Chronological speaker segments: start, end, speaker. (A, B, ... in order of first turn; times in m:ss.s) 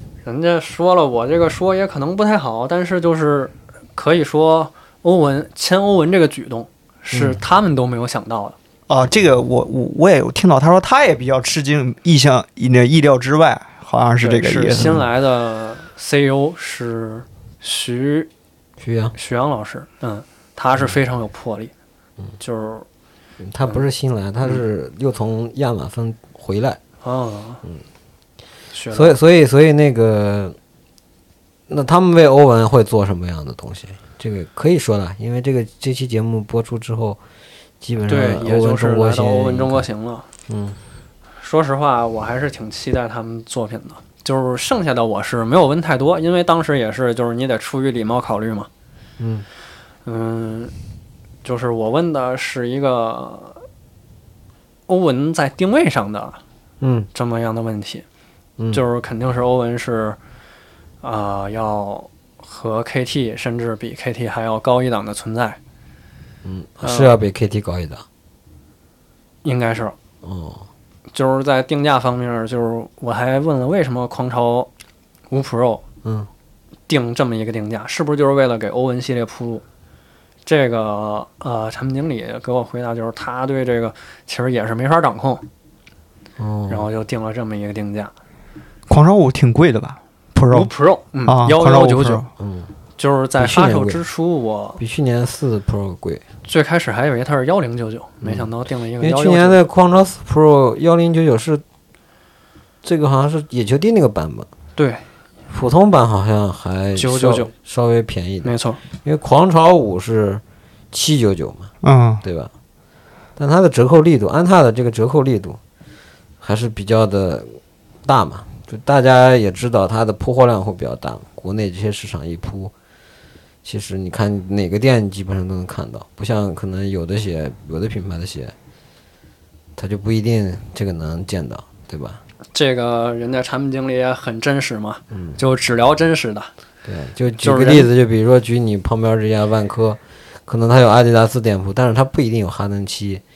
0:00.2-0:08.6 A
0:07.1-0:07.4 B
0:08.9-0:15.0 C
0:14.2-0:18.3 A
0:18.8-0:19.2 B
0:19.2-0:21.7 A
0:22.4-0:22.9 A
0:23.4-0:26.8 B
0:27.0-0:27.6 A
0:28.7-0:29.2 A
0:28.9-0:30.6 B
0:31.7-0:37.2 B
0:37.8-0:39.8 B
0:38.1-0:40.3 A
0:40.5-0:40.8 B
0:41.4-0:48.7 A
0:49.2-0:49.4 B
0:50.0-0:50.7 A
0:51.4-0:53.6 A
0:54.9-0:56.4 A
0:56.8-0:57.1 B
0:57.1-0:58.0 A
0:58.7-1:00.2 A
1:01.0-1:05.6 A
1:06.4-1:08.0 B
1:06.8-1:07.2 A
1:09.4-1:10.0 A
1:10.2-1:10.7 B
1:11.1-1:14.7 A
1:15.3-1:15.8 A
1:16.9-1:19.6 A
1:20.4-1:25.4 A
1:26.4-1:26.8 B
1:26.7-1:28.1 A
1:28.9-1:30.7 C
1:30.5-1:32.2 A
1:31.3-1:32.3 C
1:32.4-1:32.7 B
1:33.0-1:34.8 A
1:33.4-1:34.0 B
1:34.8-1:36.2 B
1:36.4-1:39.6 A
1:38.2-1:38.5 B
1:39.0-1:41.6 B
1:42.8-1:44.5 B
1:44.8-1:45.0 A
1:45.5-1:48.5 B
1:47.0-1:47.5 A
1:48.4-1:48.8 A
1:49.0-1:51.7 B
1:51.8-1:52.2 C
1:52.2-1:52.5 B
1:53.4-1:55.6 B
1:56.4-2:02.7 B
2:03.6-2:08.5 B
2:09.8-2:12.2 B
2:12.5-2:16.5 A
2:15.1-2:15.4 B
2:16.8-2:23.2 B
2:17.4-2:17.9 A